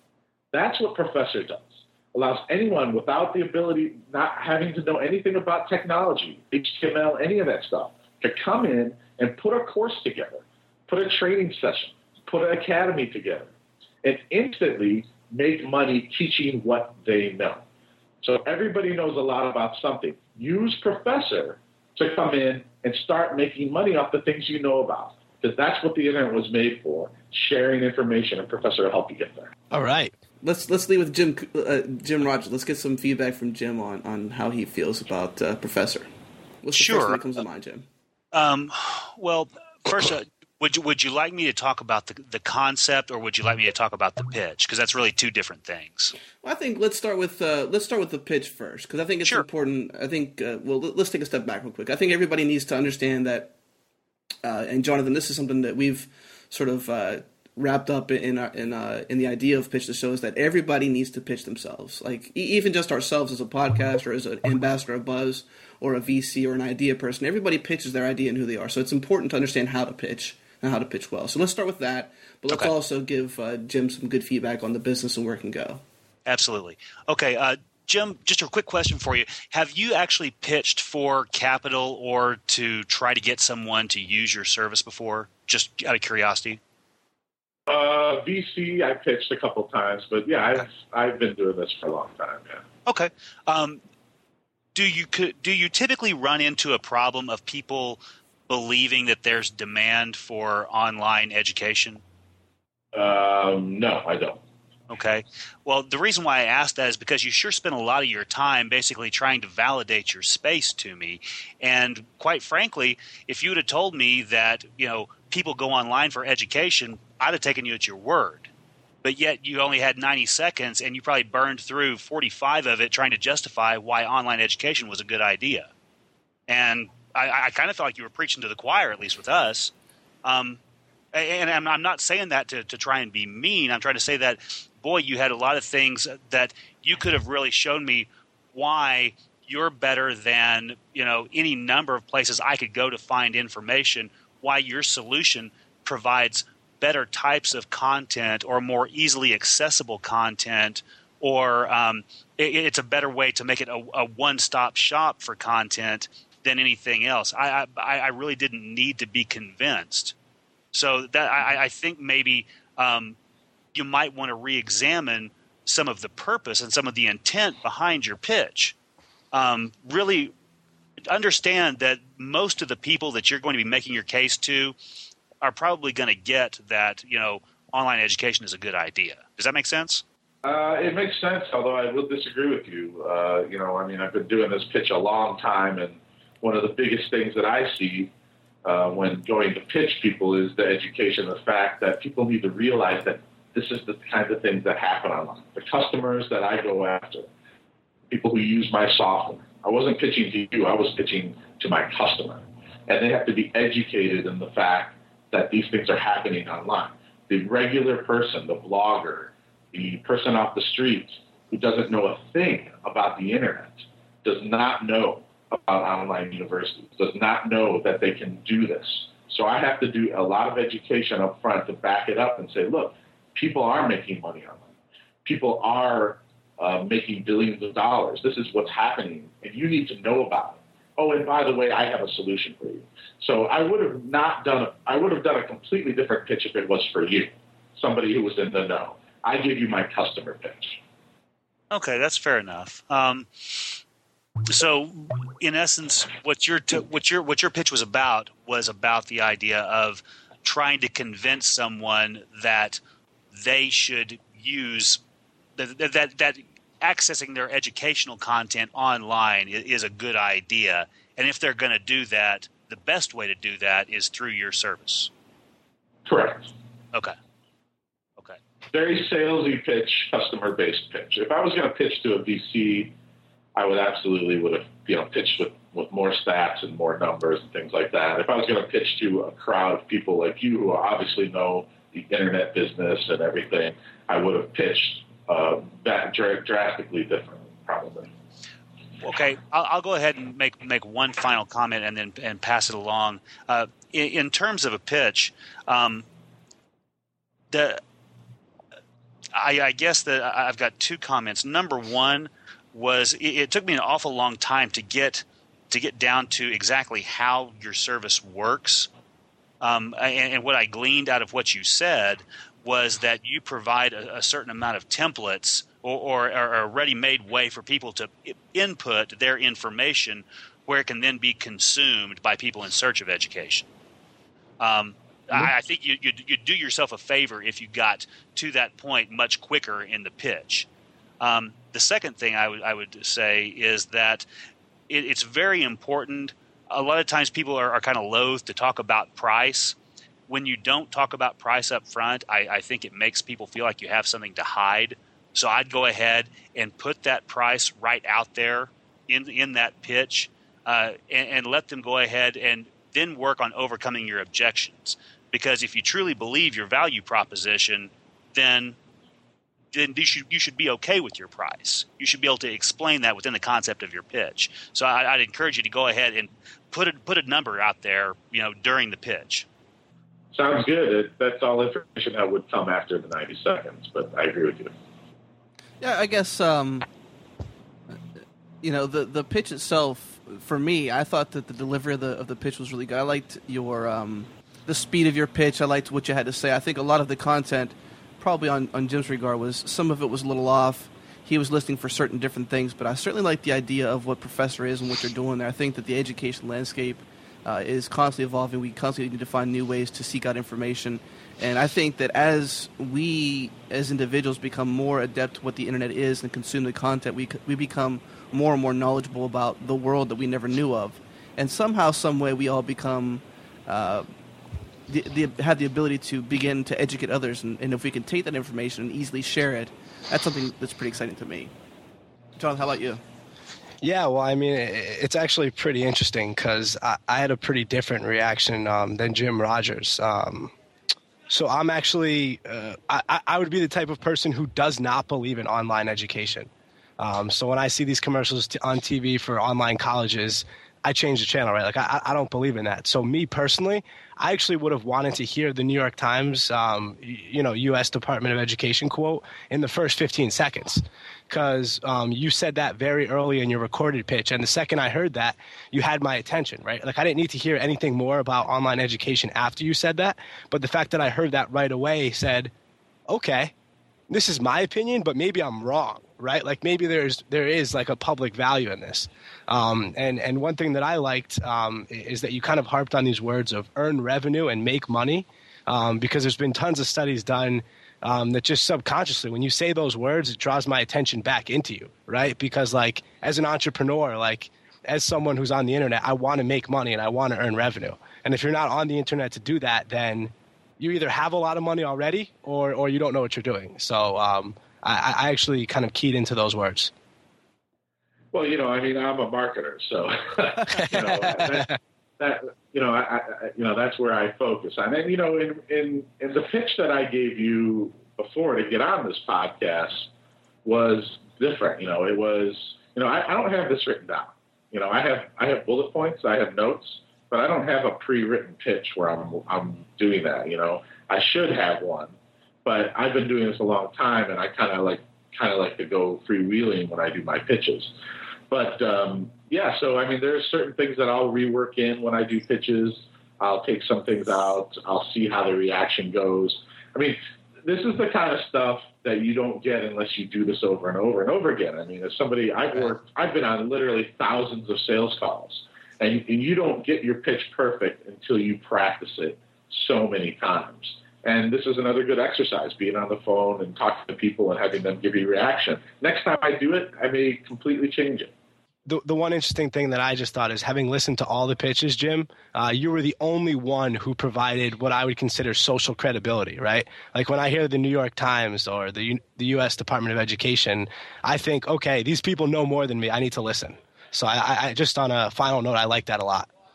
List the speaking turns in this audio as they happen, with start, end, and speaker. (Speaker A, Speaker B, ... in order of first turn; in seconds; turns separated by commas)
Speaker A: 0.5-13.5, Speaker A: 14.0-17.6, Speaker A: 18.2-29.5, Speaker B: 29.7-30.1, Speaker C: 30.4-36.1, Speaker C: 36.6-37.9, Speaker D: 36.7-37.2, Speaker D: 38.3-46.1, Speaker C: 46.4-53.5, Speaker C: 54.4-75.8, Speaker D: 76.3-86.6, Speaker A: 87.7-92.6, Speaker D: 92.9-93.8, Speaker D: 94.8-102.0, Speaker A: 102.9-104.4, Speaker D: 104.9-118.5, Speaker D: 119.0-125.7, Speaker D: 126.5-129.7, Speaker D: 130.2-130.6, Speaker D: 131.1-160.2, Speaker D: 160.7-163.2, Speaker D: 163.8-168.8, Speaker D: 169.3-170.3, Speaker D: 171.1-174.8, Speaker D: 175.4-180.0, Speaker A: 180.4-188.1, Speaker A: 188.7-197.3, Speaker A: 198.1-224.7, Speaker A: 225.2-240.8, Speaker D: 241.7-243.8, Speaker D: 244.5-252.8, Speaker D: 253.3-255.0, Speaker D: 255.6-265.1, Speaker A: 266.1-266.5, Speaker A: 268.7-272.9, Speaker A: 273.6-288.1, Speaker D: 289.0-296.1, Speaker D: 297.5-297.8, Speaker D: 299.3-308.9, Speaker D: 309.6-323.7, Speaker D: 324.6-330.7, Speaker D: 331.2-334.3, Speaker D: 334.9-339.8, Speaker D: 340.3-358.8, Speaker D: 359.7-369.5, Speaker A: 370.3-374.7, Speaker C: 375.8-376.9, Speaker C: 378.6-414.1, Speaker C: 414.9-421.5, Speaker C: 422.4-423.0, Speaker B: 423.8-430.5, Speaker B: 431.3-462.5, Speaker B: 463.1-463.5, Speaker B: 464.1-496.9, Speaker A: 498.3-510.1, Speaker B: 500.9-501.6, Speaker A: 510.6-522.1, Speaker A: 522.6-527.9, Speaker A: 528.5-558.3, Speaker B: 558.9-576.5